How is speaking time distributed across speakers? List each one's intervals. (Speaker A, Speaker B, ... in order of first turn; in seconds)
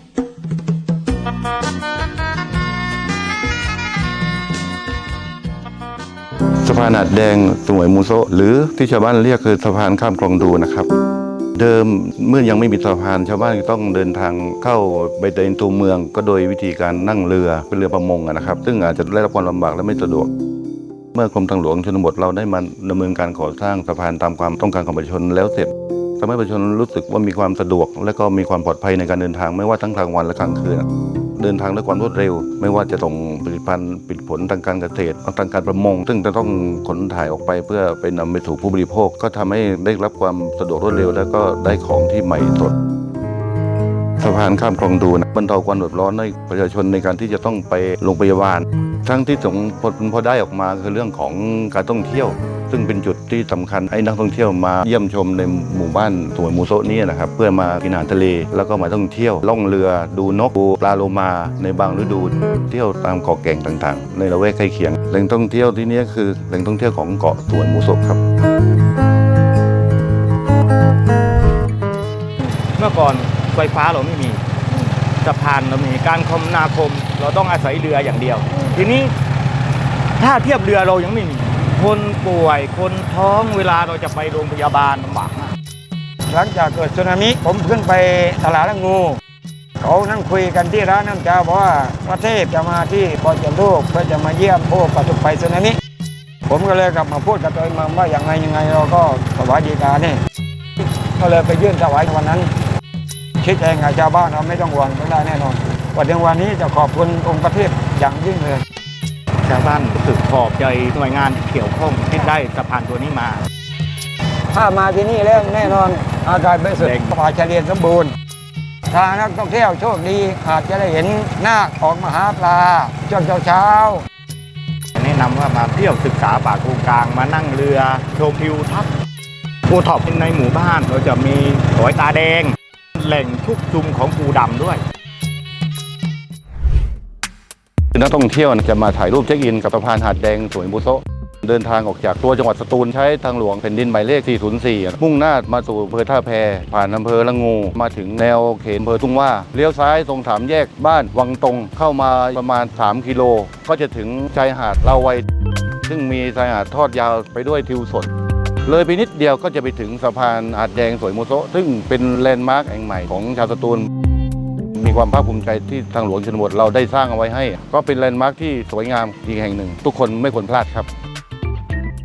Speaker A: 6.6-10.9, 11.6-20.3, 21.1-42.8, 44.2-68.2, 137.9-155.2, 155.8-158.1, 158.6-163.9, 164.8-170.9
Speaker B: 72.8-79.1, 80.2-85.5, 109.4-113.4, 116.8-117.1, 125.0-128.9, 129.7-134.8
Speaker C: 86.3-89.2, 89.8-95.8, 96.5-100.2, 101.1-102.5, 103.4-108.6, 114.5-118.1, 118.9-124.0